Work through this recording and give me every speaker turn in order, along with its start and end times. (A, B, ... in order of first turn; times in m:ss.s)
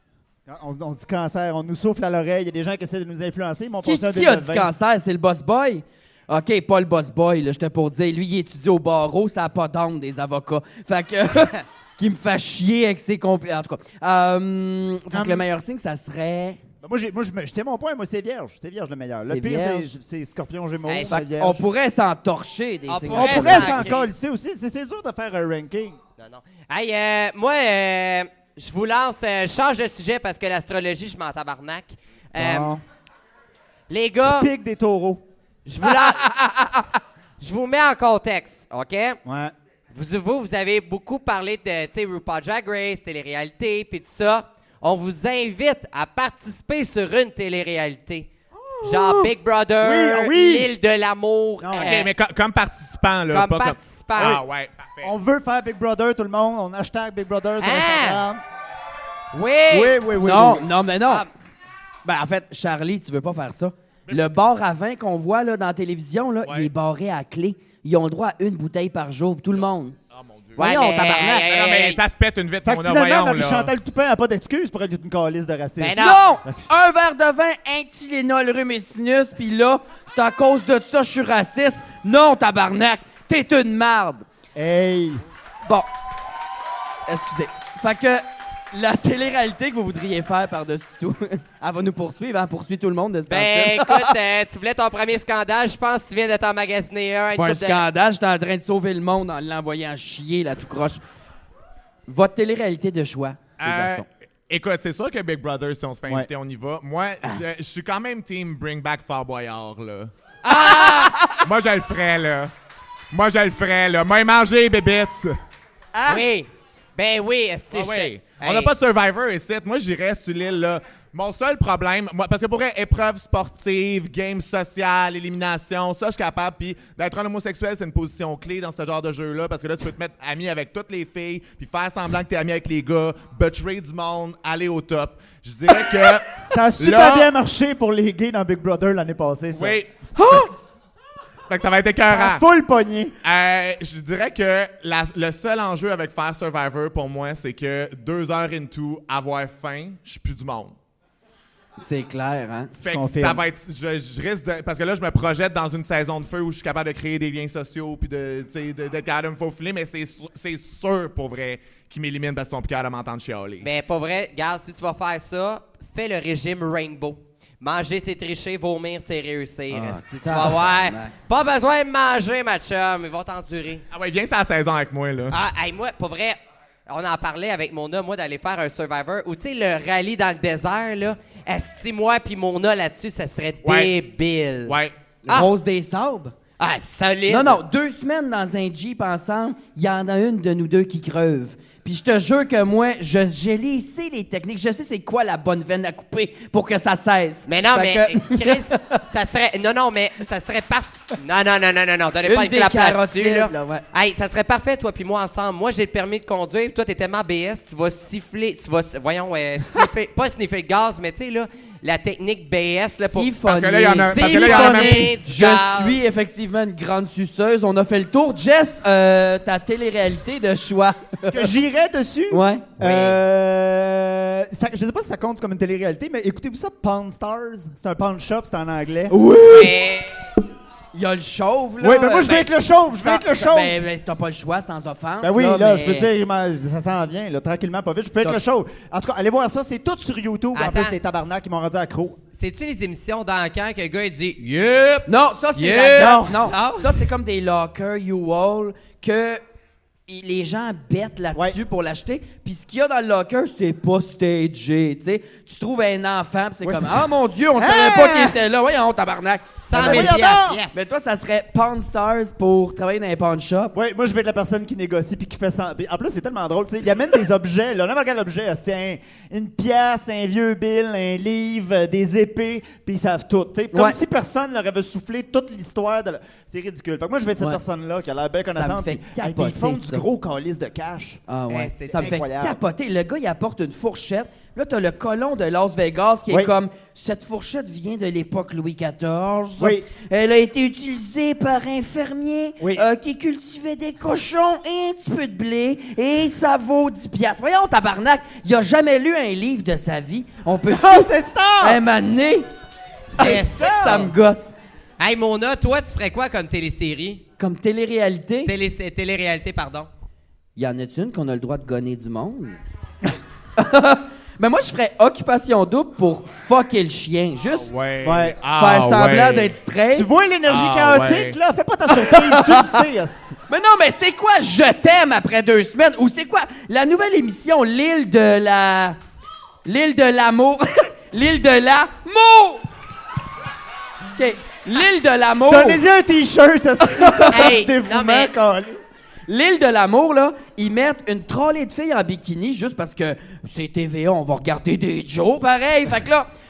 0:00.4-0:04.7 A
0:03.8-0:16.6 B
0:15.1-0:15.5 A
0:16.8-0:21.6 A
0:19.3-0:19.9 B
0:20.8-0:21.2 C
0:21.1-0:23.8 B
0:22.9-0:24.1 C
0:23.1-0:26.0 A
0:26.2-0:32.7 C
0:32.4-0:32.8 A
0:33.9-0:34.5 C
0:34.2-0:35.2 A
0:35.6-0:36.3 C
0:35.8-0:37.0 B
0:37.4-0:39.2 C
0:39.2-0:39.5 A
0:39.9-0:48.3 C
0:48.6-0:49.3 A
0:48.8-0:52.1 C
0:49.8-0:50.7 A
0:51.6-0:52.0 A
0:51.8-0:55.1 D
0:53.3-0:54.4 C
0:54.2-0:54.4 A
0:55.0-0:58.4 A
0:57.6-0:58.2 C
0:59.3-1:00.0 C
0:59.7-1:00.7 A
1:00.2-1:01.3 B
1:02.0-1:10.0 B
1:06.4-1:06.7 D
1:10.1-1:10.7 D
1:10.6-1:12.0 C
1:10.6-1:11.5 B
1:11.4-1:13.7 D
1:12.6-1:16.7 A
1:15.8-1:16.2 C
1:16.0-1:24.2 B
1:24.5-1:25.2 A
1:27.1-1:34.1 B
1:33.3-1:37.8 C
1:37.4-1:41.0 B
1:42.1-1:44.0 B
1:43.6-1:50.1 D
1:50.4-1:51.4 B
1:50.4-1:51.2 C
1:51.3-1:52.5 D
1:53.1-1:55.4 D
1:55.9-1:56.2 B
1:56.1-1:58.7 C
1:57.7-2:17.3 D
2:16.4-2:19.8 A
2:19.5-2:20.5 D
2:20.2-2:20.5 B
2:21.5-2:22.4 D
2:22.1-2:23.1 A
2:23.2-2:30.7 D
2:31.8-2:32.7 B
2:32.8-2:43.7 D
2:32.9-2:33.4 A
2:43.6-2:53.8 C
2:49.7-2:51.1 B
2:53.9-2:55.4 D
2:55.3-3:04.8 C
3:03.6-3:03.9 D
3:04.6-3:04.9 D
3:05.2-3:06.3 B
3:06.6-3:07.6 C
3:07.3-3:18.8 B
3:17.4-3:33.3 C
3:22.2-3:23.8 B
3:33.0-3:41.5 B
3:33.4-3:35.1 D
3:33.9-3:36.0 C
3:41.3-3:49.1 A
3:42.3-3:42.7 B
3:42.8-3:43.2 C
3:49.1-3:49.8 B
3:49.5-3:50.2 C
3:50.9-3:56.1 B
3:51.8-3:53.8 A
3:55.2-4:02.2 A
4:00.5-4:01.0 C
4:02.3-4:07.0 C
4:05.1-4:09.4 B
4:05.9-4:06.5 A
4:10.1-4:20.2 B
4:11.3-4:11.6 A
4:16.6-4:18.4 A
4:19.6-4:20.9 C
4:19.7-4:20.6 A
4:20.7-4:23.7 B
4:23.7-4:41.2 A
4:38.5-4:40.0 B
4:41.3-5:01.1 B
4:41.5-4:42.2 C
4:41.9-4:42.6 A
4:46.3-4:46.5 A
4:49.6-4:49.9 A
4:52.6-4:52.9 A
5:00.7-5:01.8 A
5:01.6-5:02.5 B
5:03.1-5:04.1 C
5:03.1-5:04.1 A
5:03.2-5:04.5 B
5:05.0-5:07.2 C
5:07.4-5:08.5 B
5:08.4-5:09.9 C
5:10.6-5:12.6 B
5:13.6-5:17.7 B
5:17.5-5:19.6 D
5:18.0-5:18.4 A
5:18.5-5:20.1 B
5:19.9-5:23.4 A
5:20.4-5:21.4 D
5:21.9-5:22.8 B
5:23.5-5:29.0 B
5:29.6-5:32.6 B
5:34.1-5:35.8 B
5:35.4-5:38.8 A
5:36.8-5:37.4 B
5:37.3-5:38.3 C
5:39.3-5:46.3 B